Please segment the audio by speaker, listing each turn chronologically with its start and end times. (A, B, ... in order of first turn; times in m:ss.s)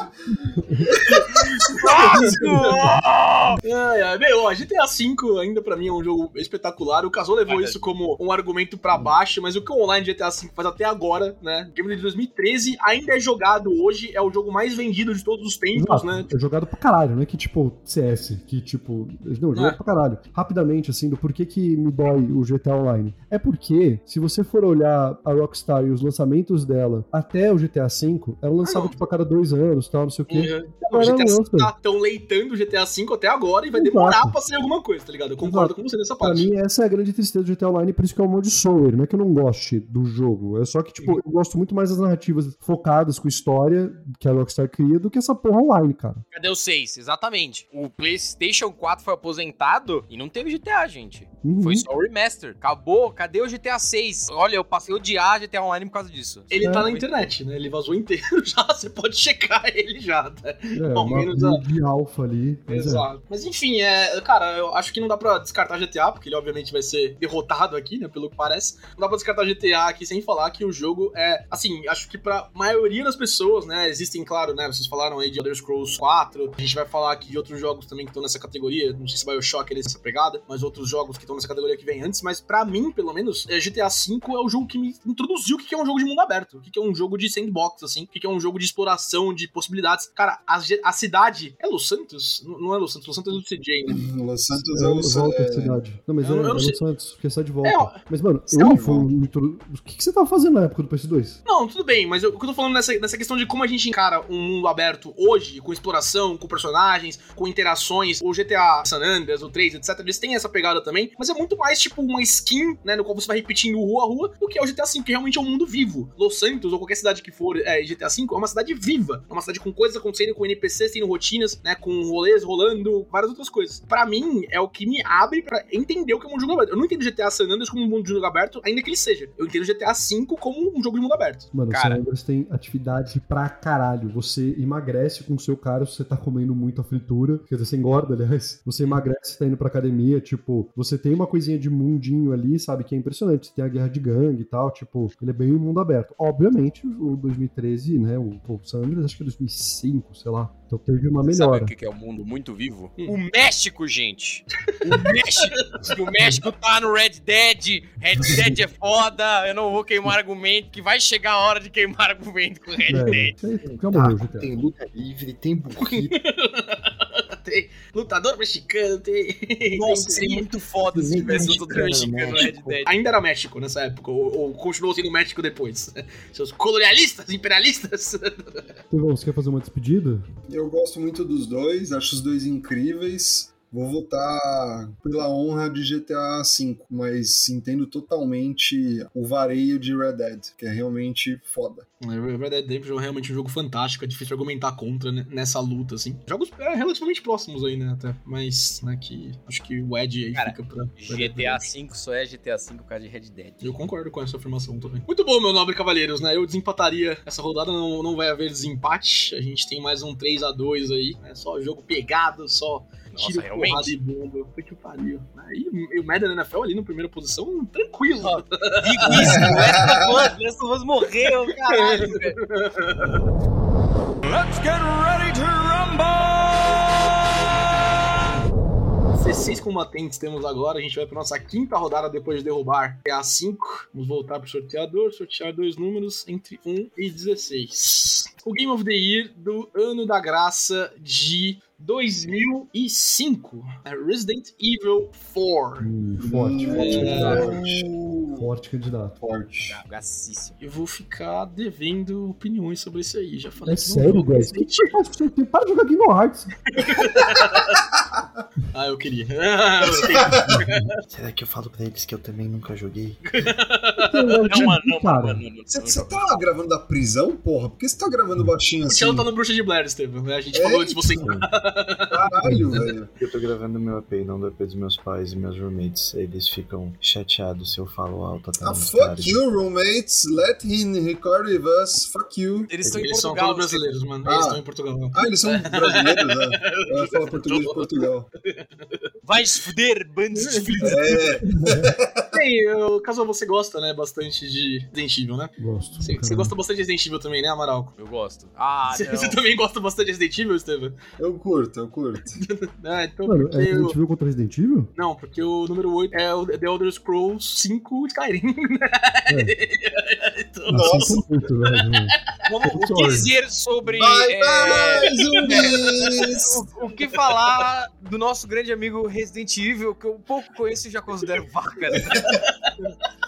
0:00.5-0:01.0 A
0:00.9-0:02.4 B
0:01.0-0:02.9 C
0:01.2-0:03.6 D
0:03.6-0:16.3 C
0:07.5-0:07.9 D
0:15.7-0:31.7 A
0:28.6-0:29.0 C
0:30.3-0:36.5 C
0:33.7-0:34.3 A
0:35.4-0:46.2 A
0:46.3-0:57.1 D
0:51.4-0:51.8 A
0:56.5-1:01.6 C
0:56.6-0:56.9 A
1:00.7-1:03.1 A
1:02.7-1:34.0 C
1:33.9-1:35.8 B
1:34.5-1:41.4 A
1:36.2-1:36.8 C
1:37.6-1:38.0 C
1:38.5-1:38.8 C
1:38.6-1:39.1 B
1:41.4-2:11.5 C
2:11.5-2:31.7 A
2:11.7-2:12.0 D
2:31.2-2:43.3 D
2:34.9-2:35.9 C
2:42.9-2:44.5 A
2:43.6-2:46.2 E
2:45.8-2:50.5 C
2:49.7-2:52.9 D
2:50.8-2:52.8 E
2:51.2-2:58.8 C
2:58.9-3:00.3 A
3:00.5-3:11.8 B
3:12.0-3:21.7 C
3:20.3-3:23.8 D
3:23.6-3:39.8 C
3:33.1-3:33.9 D
3:38.3-3:42.4 D
3:39.1-3:40.1 B
3:41.7-3:43.3 C
3:44.2-3:46.2 D
3:49.2-4:05.9 C
4:05.8-4:09.2 A
4:06.2-4:08.5 B
4:06.7-4:07.6 C
4:09.2-4:09.8 B
4:09.6-4:10.6 D
4:10.6-4:14.9 C
4:13.6-4:16.5 A
4:16.7-4:17.7 C
4:16.8-4:18.2 B
4:18.7-4:20.9 C
4:19.8-4:20.6 B
4:20.5-4:20.8 A
4:21.1-4:23.2 E
4:23.2-4:24.2 C
4:24.0-4:25.4 A
4:24.5-4:26.4 D
4:25.7-4:29.3 B
4:28.9-4:32.2 C
4:30.5-4:31.3 B
4:31.2-4:31.5 E
4:32.1-4:33.1 B
4:32.4-4:39.4 E
4:38.6-4:42.7 B
4:42.7-4:43.9 D
4:42.9-4:49.1 C
4:44.2-4:44.6 B
4:45.1-4:48.3 B
4:49.2-4:51.3 D
4:50.3-4:51.0 C
4:50.8-4:52.3 B
4:51.5-4:51.9 A
4:52.3-4:57.9 C
4:55.6-4:56.5 A
4:58.0-4:59.4 D
4:58.9-5:01.0 C
5:01.2-5:02.4 B
5:02.4-5:04.0 C
5:03.2-5:04.9 A
5:05.0-5:11.9 C
5:09.3-5:09.5 A
5:10.7-5:13.3 A
5:10.7-5:11.1 B
5:12.4-5:22.2 D
5:13.8-5:16.6 B
5:15.5-5:15.8 C
5:21.9-5:22.4 B
5:22.2-5:22.9 C